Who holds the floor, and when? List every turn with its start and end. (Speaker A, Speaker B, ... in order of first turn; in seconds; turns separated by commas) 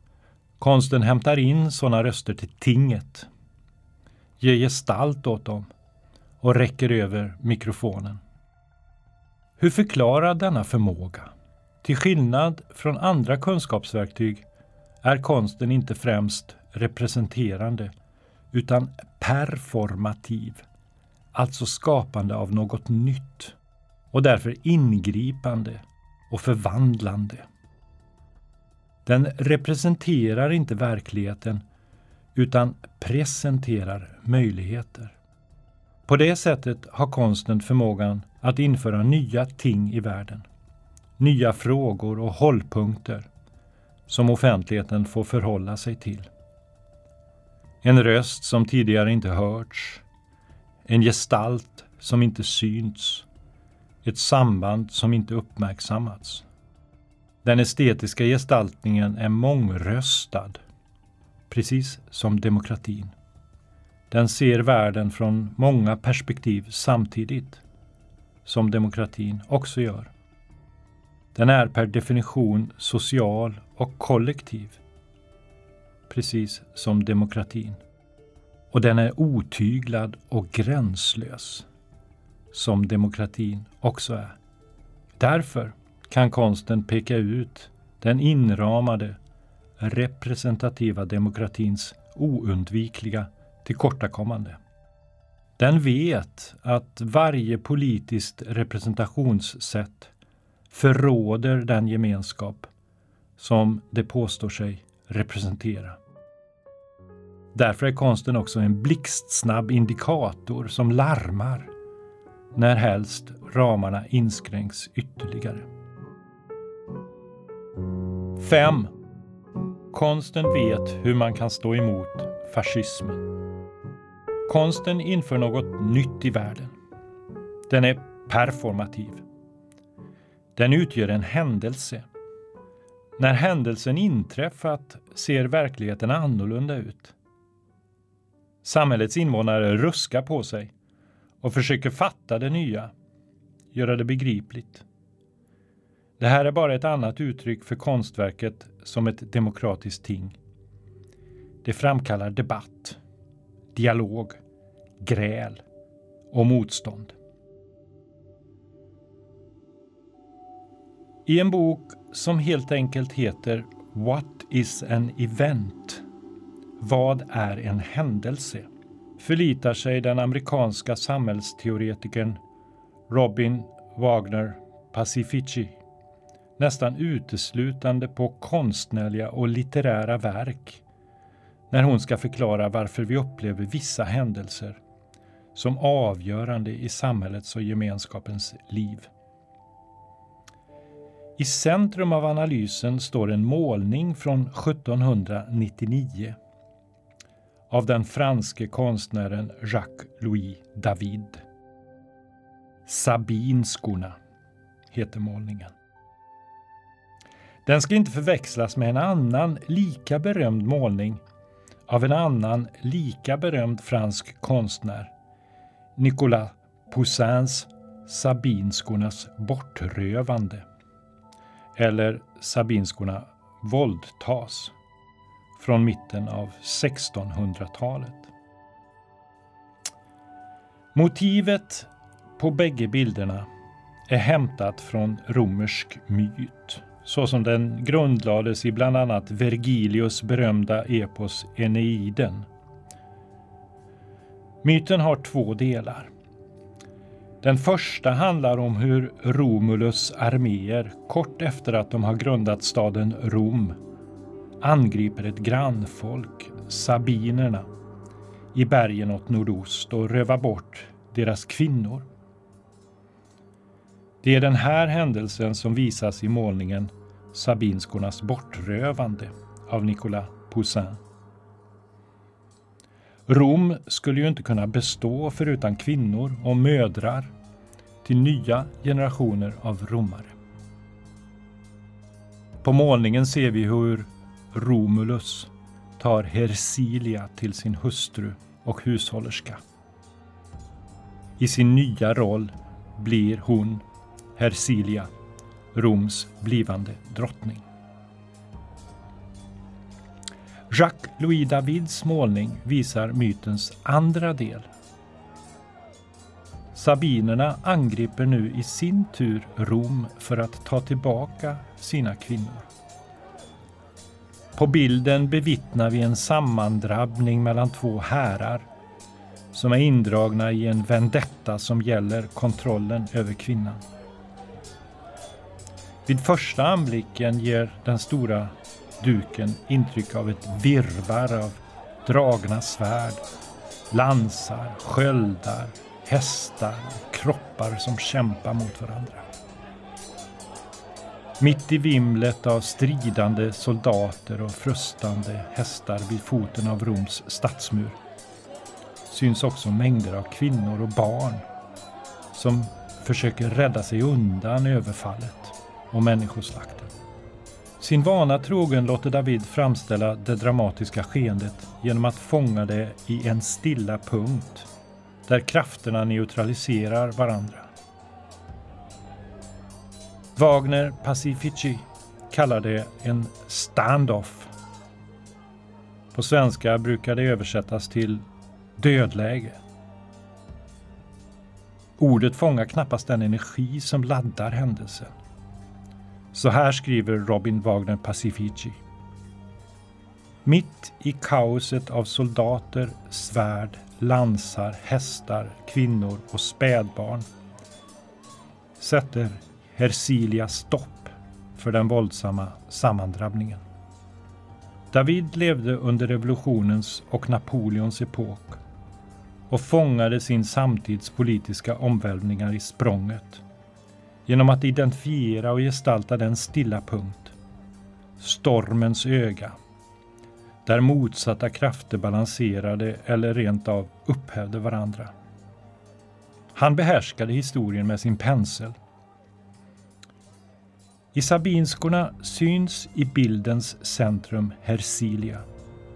Speaker A: 0.6-3.3, Speaker A: 4.4-5.7, Speaker A: 6.4-8.2, Speaker A: 9.6-11.3, Speaker A: 11.8-14.4, Speaker A: 15.0-17.9, Speaker A: 18.5-20.6, Speaker A: 21.3-23.6, Speaker A: 24.1-27.4, Speaker A: 29.0-31.6, Speaker A: 32.3-35.1, Speaker A: 36.0-40.5, Speaker A: 41.2-43.3, Speaker A: 44.1-46.3, Speaker A: 47.8-50.0, Speaker A: 50.9-53.3, Speaker A: 54.0-56.5, Speaker A: 57.4-60.6, Speaker A: 61.5-63.1, Speaker A: 64.1-67.6, Speaker A: 68.4-70.1, Speaker A: 71.3-74.8, Speaker A: 76.1-77.8, Speaker A: 78.7-81.7, Speaker A: 82.5-84.3, Speaker A: 85.2-89.2, Speaker A: 89.8-94.6, Speaker A: 95.6-100.1, Speaker A: 100.7-102.7, Speaker A: 103.4-106.0, Speaker A: 107.5-111.7, Speaker A: 112.5-115.7, Speaker A: 118.3-118.9, Speaker A: 119.9-123.3, Speaker A: 124.5-126.7, Speaker A: 127.7-129.2, Speaker A: 130.6-132.1, Speaker A: 133.2-137.1, Speaker A: 138.6-140.7, Speaker A: 141.4-142.9, Speaker A: 143.7-144.8, Speaker A: 146.2-150.4, Speaker A: 151.6-153.0, Speaker A: 153.7-154.4, Speaker A: 155.0-155.6, Speaker A: 156.3-157.2, Speaker A: 161.2-166.0, Speaker A: 166.8-168.7, Speaker A: 169.2-172.4, Speaker A: 173.1-175.8, Speaker A: 176.6-180.8, Speaker A: 181.7-184.8, Speaker A: 185.5-189.1, Speaker A: 191.4-196.4, Speaker A: 197.7-201.4, Speaker A: 202.8-204.2, Speaker A: 204.9-205.7, Speaker A: 207.6-211.2, Speaker A: 211.9-215.1, Speaker A: 216.0-220.6, Speaker A: 221.8-224.7, Speaker A: 225.6-228.3, Speaker A: 230.9-233.5, Speaker A: 234.1-242.5, Speaker A: 244.6-246.1, Speaker A: 247.4-253.8, Speaker A: 254.6-257.7, Speaker A: 258.5-262.1, Speaker A: 264.2-271.0, Speaker A: 273.3-277.3, Speaker A: 278.0-280.3, Speaker A: 282.6-289.6, Speaker A: 291.4-293.8, Speaker A: 294.3-295.1, Speaker A: 295.7-297.6, Speaker A: 300.7-304.7, Speaker A: 306.7-312.7, Speaker A: 314.5-318.7, Speaker A: 319.5-323.8, Speaker A: 326.1-333.2, Speaker A: 333.9-339.2, Speaker A: 341.4-348.0, Speaker A: 349.1-351.4, Speaker A: 352.3-356.9, Speaker A: 357.8-364.7, Speaker A: 365.2-367.7, Speaker A: 370.4-374.5, Speaker A: 376.1-378.2, Speaker A: 378.8-379.6, Speaker A: 382.0-385.1, Speaker A: 386.3-388.8, Speaker A: 390.4-397.3, Speaker A: 398.8-403.6, Speaker A: 404.9-408.6, Speaker A: 409.5-413.4, Speaker A: 414.3-417.4, Speaker A: 418.2-419.5, Speaker A: 420.6-425.1, Speaker A: 426.5-428.8, Speaker A: 431.1-435.4